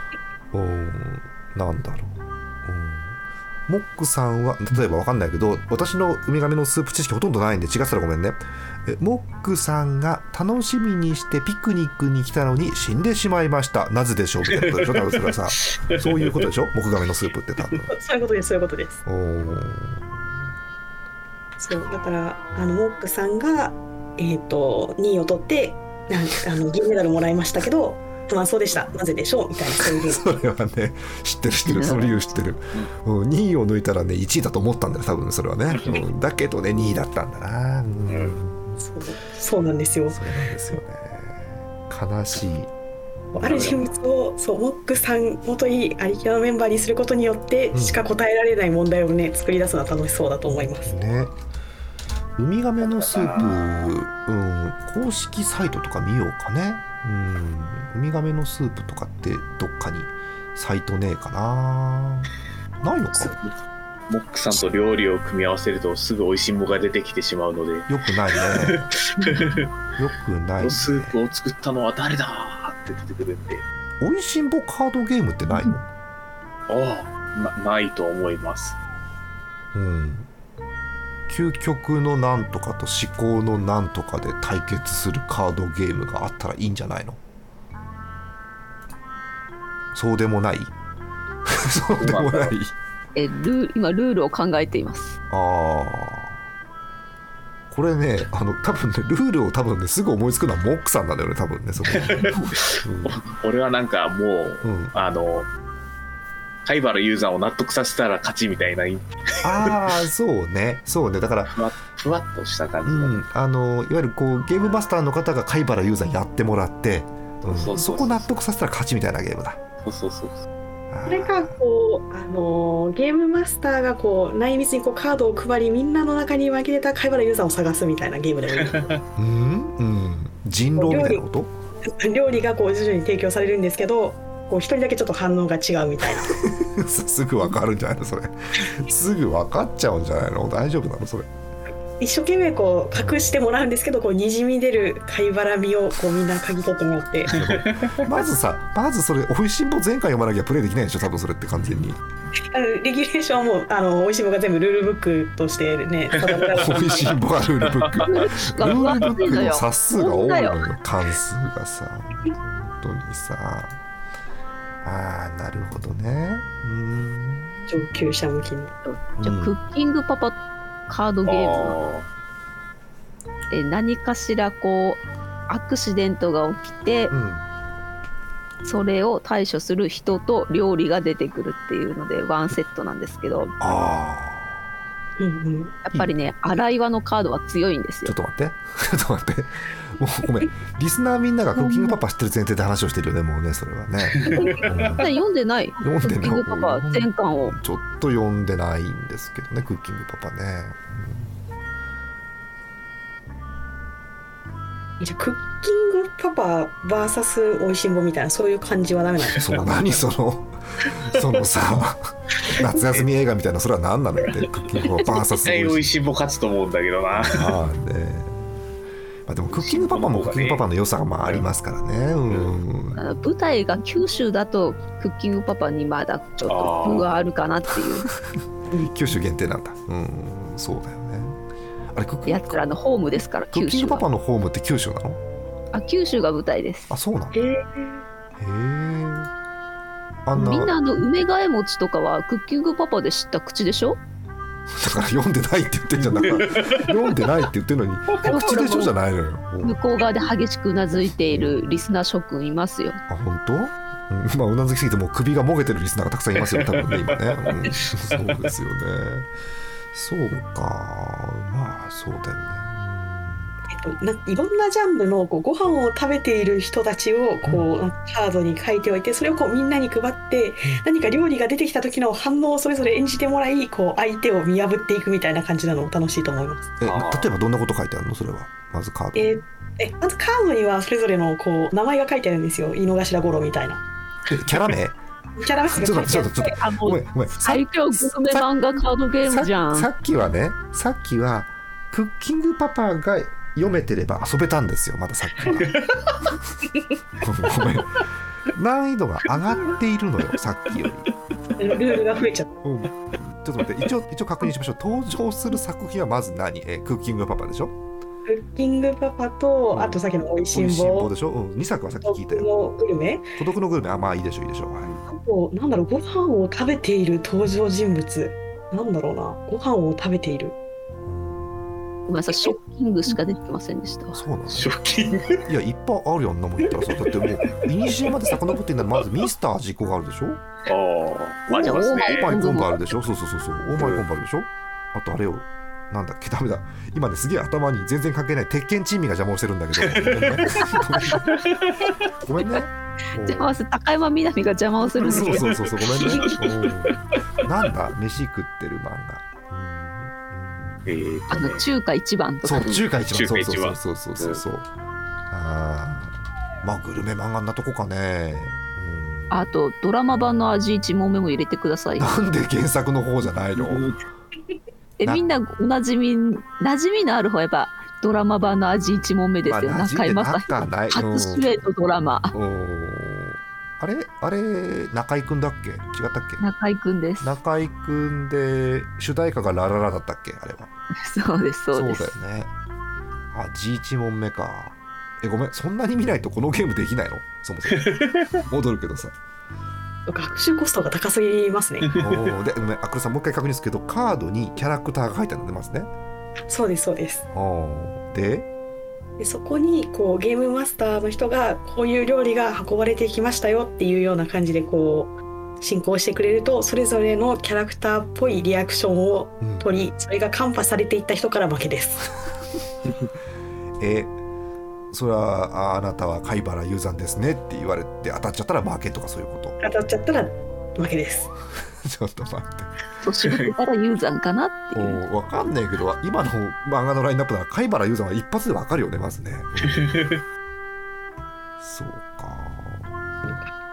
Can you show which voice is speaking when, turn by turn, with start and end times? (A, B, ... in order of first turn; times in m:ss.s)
0:00.5-0:17.9 A
0:14.5-0:16.5 B
0:17.9-0:19.0 C
0:19.0-0:20.3 A
0:21.6-0:30.4 C
0:29.9-0:38.8 A
0:31.6-0:32.4 D
0:38.1-0:38.4 B
0:38.8-0:40.2 C
0:40.1-0:42.7 A
0:43.3-0:51.0 C
0:43.4-0:43.8 A
0:47.7-0:48.0 A
0:50.8-0:51.4 A
0:52.4-1:03.4 A
0:52.8-0:53.9 B
1:03.2-1:03.5 B
1:04.1-1:09.7 B
1:07.9-1:08.9 A
1:10.0-1:11.2 A
1:10.6-1:13.6 B
1:14.0-1:15.9 A
1:16.7-1:18.8 B
1:19.7-1:20.3 A
1:21.3-1:27.2 A
1:29.9-1:30.7 A
1:31.4-1:32.8 A
1:32.0-1:32.6 B
1:33.2-1:35.2 D
1:35.3-1:36.4 A
1:37.7-1:42.3 A
1:41.9-1:45.5 B
1:42.2-1:42.5 D
1:42.8-1:43.2 A
1:44.6-1:45.0 A
1:46.7-1:50.0 B
1:49.4-1:51.6 A
1:51.5-1:53.2 B
1:52.8-1:59.6 A
1:57.5-1:58.3 B
1:59.8-2:00.4 B
2:00.9-2:01.6 A
2:01.1-2:09.0 C
2:08.8-2:09.0 B
2:09.2-2:11.5 A
2:10.8-2:11.2 C
2:11.8-2:16.4 C
2:16.2-2:21.3 A
2:22.0-2:27.4 C
2:22.9-2:23.4 A
2:27.3-2:32.0 A
2:27.3-2:28.1 B
2:32.5-2:37.1 C
2:36.2-2:37.0 B
2:36.6-2:43.8 A
2:37.6-2:38.1 B
2:38.0-2:40.7 D
2:44.8-2:47.8 A
2:47.7-2:48.8 C
2:48.8-2:51.8 D
2:49.2-2:49.6 A
2:51.3-2:52.1 B
2:53.5-2:57.1 D
2:57.1-2:57.5 A
2:58.6-3:03.5 D
3:03.6-3:04.6 A
3:05.2-3:05.8 C
3:05.8-3:08.2 D
3:05.9-3:06.3 A
3:08.0-3:15.1 A
3:11.6-3:12.0 D
3:14.1-3:15.0 B
3:14.3-3:17.6 D
3:15.8-3:21.4 A
3:25.0-3:29.5 C
3:29.4-3:35.9 A
3:32.4-3:33.0 B
3:35.4-3:37.6 B
3:37.1-3:38.5 A
3:39.3-3:43.0 A
3:39.5-3:40.7 B
3:43.0-3:48.1 D
3:46.5-3:47.1 B
3:48.9-3:51.4 A
3:51.9-3:52.6 A
3:52.3-3:54.1 D
3:53.5-3:55.2 A
3:55.7-3:56.9 D
3:56.9-3:57.4 A
3:57.3-3:58.0 C
3:58.4-3:59.3 A
4:00.2-4:00.7 A
4:00.3-4:04.0 D
4:04.7-4:09.8 A
4:06.2-4:07.0 B
4:08.2-4:09.0 D
4:09.6-4:13.0 D
4:11.3-4:11.6 A
4:13.1-4:19.3 A
4:16.4-4:18.5 B
4:19.9-4:23.5 A
4:23.7-4:36.8 C
4:36.8-4:39.4 A
4:36.8-4:37.3 B
4:39.2-4:43.8 C
4:44.3-4:44.6 B
4:44.3-4:45.0 A
4:45.4-4:46.5 C
4:45.7-4:48.5 A
4:46.4-4:49.9 D
4:49.2-4:55.7 A
4:55.4-4:56.2 B
4:57.2-5:01.1 A
5:01.6-5:02.5 C
5:02.6-5:07.8 A
5:08.3-5:11.1 C
5:09.7-5:12.5 A
5:12.0-5:13.3 C
5:13.4-5:14.9 A
5:15.1-5:20.6 C
5:21.0-5:21.7 A
5:22.1-5:24.2 D
5:24.1-5:24.7 A
5:24.5-5:25.4 B
5:25.4-5:30.4 A
5:26.6-5:29.1 B
5:30.7-5:32.4 B
5:31.5-5:32.9 D
5:31.7-5:41.3 A
5:33.8-5:34.0 B
5:39.8-5:42.0 B
5:42.2-5:43.6 A
5:43.2-5:45.5 D
5:45.0-5:50.9 A
5:45.1-5:47.0 B
5:50.9-5:51.6 B
5:51.3-5:52.7 D
5:52.4-5:54.7 A
5:52.6-5:54.4 B
5:55.3-5:59.4 A
5:59.3-6:02.1 D
6:02.0-6:03.9 A
6:03.6-6:04.0 B
6:05.0-6:12.3 D
6:09.5-6:11.5 A
6:12.3-6:16.4 A
6:16.4-6:17.4 D
6:17.2-6:20.7 A
6:21.0-6:22.1 D
6:21.7-6:22.5 A
6:23.3-6:29.1 A
6:27.7-6:28.4 B
6:30.1-6:31.9 C
6:31.8-6:32.4 B
6:32.0-6:35.9 A
6:36.5-6:37.3 C
6:37.3-6:38.5 A
6:39.2-6:52.1 C
6:49.4-6:49.7 A
6:53.8-6:54.2 A
6:54.9-6:59.6 A
6:59.6-7:01.3 C
7:01.8-7:02.7 A
7:03.0-7:05.0 D
7:03.3-7:03.5 B
7:04.7-7:10.0 A
7:09.6-7:10.2 B
7:11.6-7:13.3 A